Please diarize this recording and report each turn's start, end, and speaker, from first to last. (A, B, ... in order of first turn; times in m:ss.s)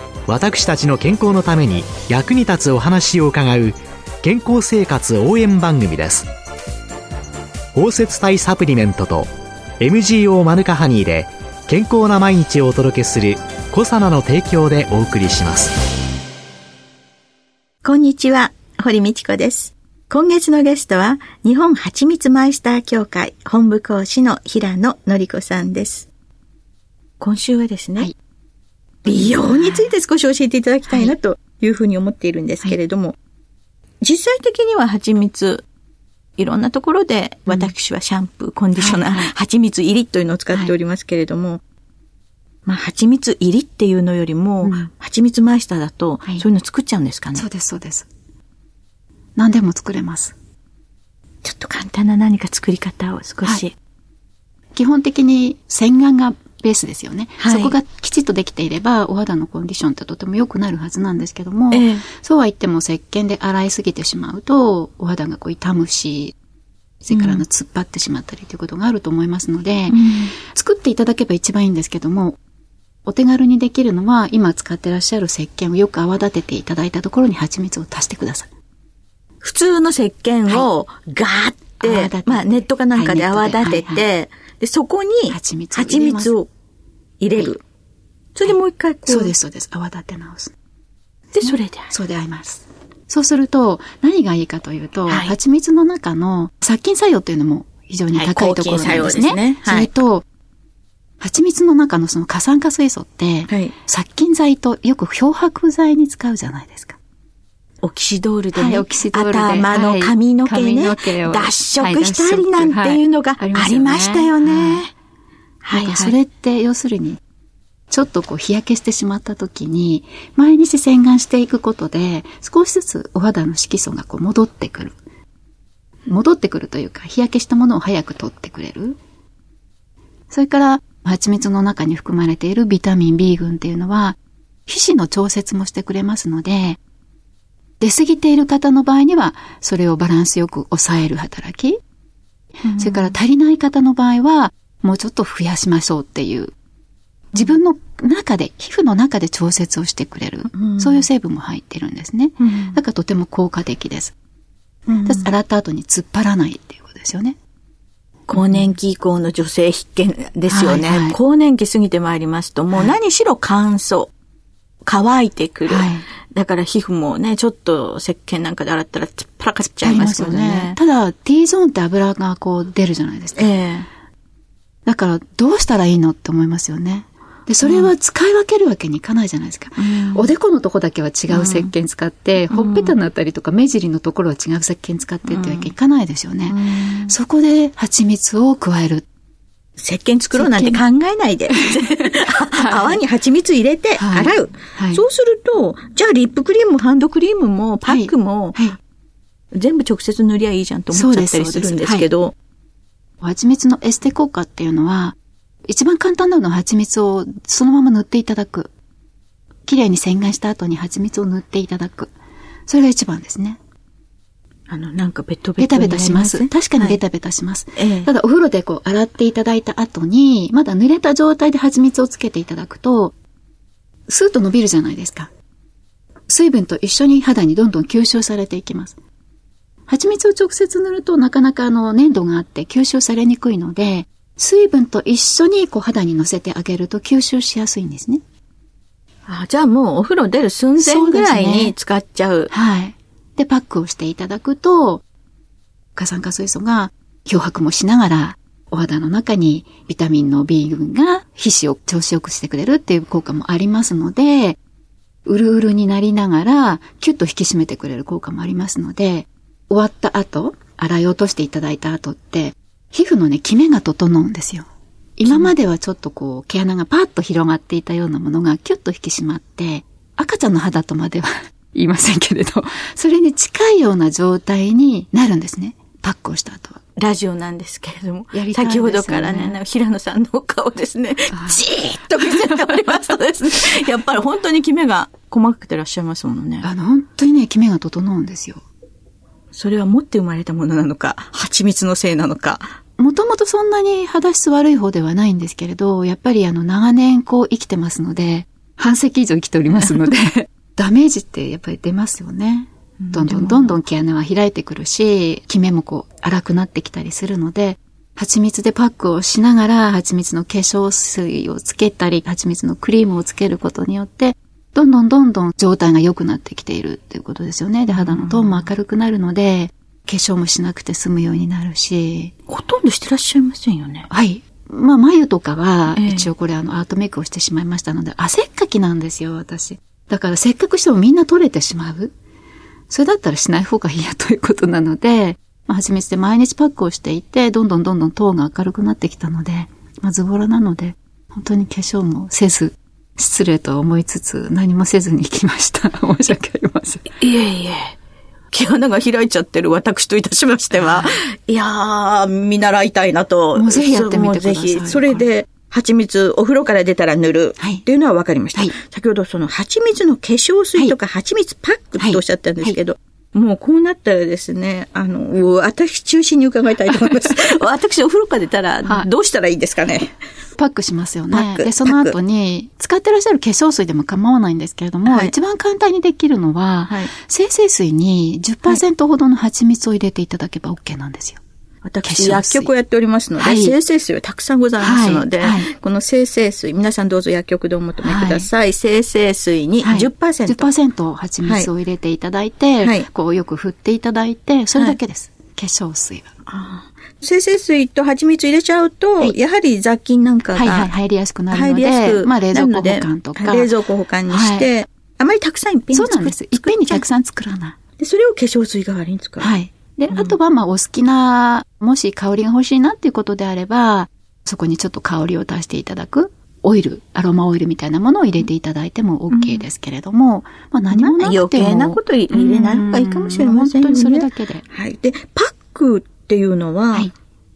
0:00.3-0:06.3 A
0:07.7-0:15.7 A
0:17.8-0:26.1 B
0:27.2-0:28.1 B
0:29.0-0:29.9 C
0:29.0-0:33.2 B
0:30.9-0:31.1 C
0:34.0-0:35.6 B
0:36.4-0:41.6 B
0:37.5-0:37.7 C
0:38.7-0:39.3 C
0:42.6-0:47.4 B
0:44.6-0:44.9 C
0:47.3-0:48.1 C
0:49.4-0:50.3 C
0:51.4-0:53.7 B
0:54.7-1:06.3 C
0:57.4-0:57.7 B
1:01.7-1:02.0 B
1:07.0-1:12.4 C
1:07.1-1:07.4 B
1:09.9-1:10.3 B
1:13.0-1:18.5 C
1:19.4-1:26.5 B
1:21.8-1:24.0 C
1:25.3-1:26.4 C
1:27.2-1:27.6 B
1:28.3-1:29.3 B
1:28.4-1:30.5 C
1:31.3-1:31.9 B
1:31.4-1:40.2 C
1:35.1-1:35.3 B
1:38.1-1:39.9 B
1:41.2-1:47.0 C
1:43.5-1:43.7 B
1:47.8-1:54.9 B
1:48.5-1:54.9 C
1:55.6-1:56.2 B
1:55.7-1:57.2 C
1:57.9-2:05.0 C
2:06.0-2:09.0 C
2:10.3-2:16.8 C
2:17.8-2:21.8 C
2:22.6-2:23.2 B
2:22.8-2:26.5 C
2:27.3-2:34.1 C
2:30.5-2:31.1 B
2:32.4-2:32.8 B
2:34.9-2:37.4 C
2:34.9-2:35.3 B
2:38.3-2:44.1 B
2:38.4-2:38.7 C
2:40.5-2:41.2 C
2:44.8-2:50.8 B
2:45.7-2:46.0 C
2:49.8-2:53.5 C
2:53.4-2:53.9 B
2:54.8-3:09.0 C
2:57.6-2:57.9 B
2:59.8-3:00.3 B
3:01.3-3:01.7 B
3:02.5-3:03.0 B
3:05.2-3:05.7 B
3:06.5-3:07.1 B
3:09.8-3:18.7 B
3:10.3-3:10.8 C
3:12.6-3:13.0 C
3:14.0-3:15.0 C
3:17.8-3:18.8 C
3:19.5-3:22.3 B
3:20.9-3:22.1 C
3:23.2-3:28.7 C
3:29.6-3:32.1 C
3:32.7-3:33.6 C
3:34.7-3:37.0 B
3:35.6-3:43.1 C
3:37.8-3:38.1 B
3:44.1-3:45.3 C
3:46.3-3:49.0 C
3:49.9-3:58.2 C
3:59.2-4:02.5 B
4:00.8-4:01.7 C
4:02.5-4:05.0 C
4:06.0-4:14.6 C
4:15.2-4:24.6 C
4:25.2-4:36.8 C
4:25.2-4:25.5 B
4:37.0-4:46.7 B
4:38.3-4:39.6 C
4:41.3-4:43.0 C
4:46.6-4:48.6 C
4:49.5-4:52.7 B
4:53.0-5:22.3 C
5:03.0-5:03.8 B
5:17.9-5:18.7 B
5:22.5-5:24.1 B
5:24.1-5:32.1 C
5:25.9-5:26.3 B
5:32.9-5:47.0 C
5:47.2-5:47.9 B
5:48.5-6:10.2 B
5:50.7-5:51.1 C
5:53.5-5:55.3 C
5:57.6-5:57.8 C
6:02.0-6:02.8 C
6:10.6-6:21.4 C
6:11.3-6:12.2 B
6:15.0-6:15.3 B
6:21.8-6:30.7 B
6:22.0-6:22.7 C
6:23.4-6:23.8 C
6:24.8-6:25.7 C
6:28.0-6:28.5 C
6:29.8-6:36.3 C
6:31.4-6:31.7 B
6:32.8-6:33.1 B
6:36.5-6:40.9 B
6:40.5-6:43.7 C
6:41.5-6:47.0 B
6:44.3-6:44.7 C
6:45.9-6:47.8 C
6:48.0-6:49.5 B
6:49.4-7:04.6 C
6:50.1-6:50.4 B
6:59.3-6:59.6 B
7:00.9-7:07.1 B